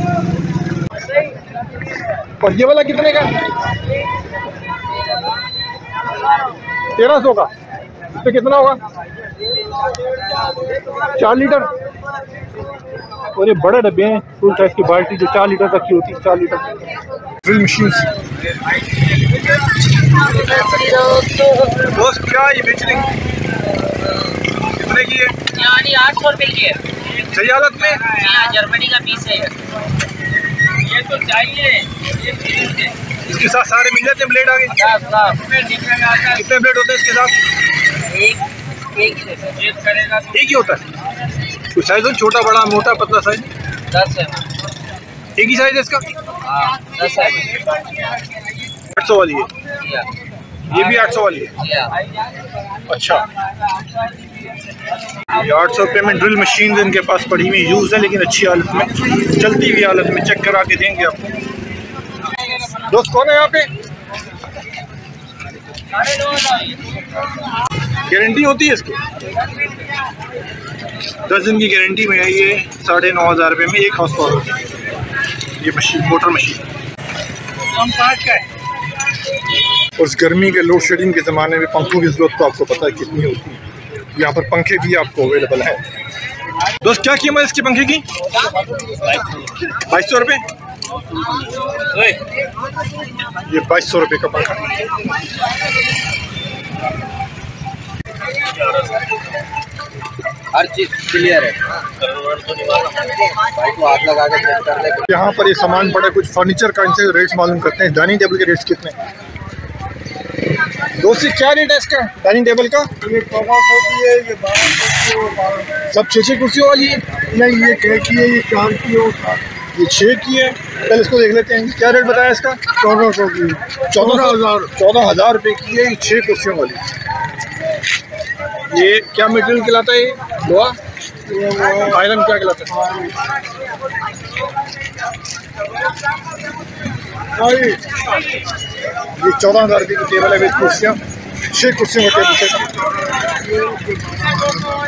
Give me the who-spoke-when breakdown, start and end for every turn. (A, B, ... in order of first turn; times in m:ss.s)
0:02.4-0:03.3 A
0:07.0-0:07.5 A
0:08.1-0:08.8 A
0:11.2-0:11.7 A
0:13.3-0:18.1 A
0:20.5-0:21.3 B
0:21.9-0:23.1 A
0:24.7-0:25.3 A
0:25.6-0:26.8 B
0:27.3-0:28.0 A
0:28.1-0:29.5 B
0:30.9-0:31.8 B
0:33.3-0:34.7 A
0:34.8-0:36.3 B
0:36.3-0:37.3 A
0:38.1-0:40.2 B
0:40.3-0:40.8 A
0:41.7-0:43.5 A
0:43.9-0:44.4 B
0:45.4-0:46.0 A
0:46.4-0:47.5 B
0:48.9-0:49.5 A
0:50.7-0:51.6 A
0:51.1-0:51.9 B
0:52.9-0:53.3 A
0:55.3-1:01.4 A
1:02.8-1:03.7 A
1:08.1-1:09.0 A
1:11.3-1:14.5 A
1:15.6-1:16.6 A
1:17.8-1:18.4 A
1:20.0-1:23.6 A
1:24.1-1:25.8 A
1:26.8-1:28.0 A
1:28.9-1:29.2 B
1:29.8-1:30.4 A
1:33.4-1:34.7 A
1:40.5-1:41.6 B
1:43.4-1:45.0 B
1:45.1-1:49.0 A
1:51.0-1:52.9 A
1:53.0-1:55.7 C
1:55.9-1:57.0 A
1:57.3-1:59.4 C
1:59.7-2:02.7 A
2:02.8-2:04.7 C
2:03.9-2:06.8 A
2:08.7-2:10.8 A
2:11.3-2:12.0 C
2:11.8-2:12.8 A
2:17.4-2:17.7 C
2:19.2-2:21.0 A
2:21.5-2:22.7 A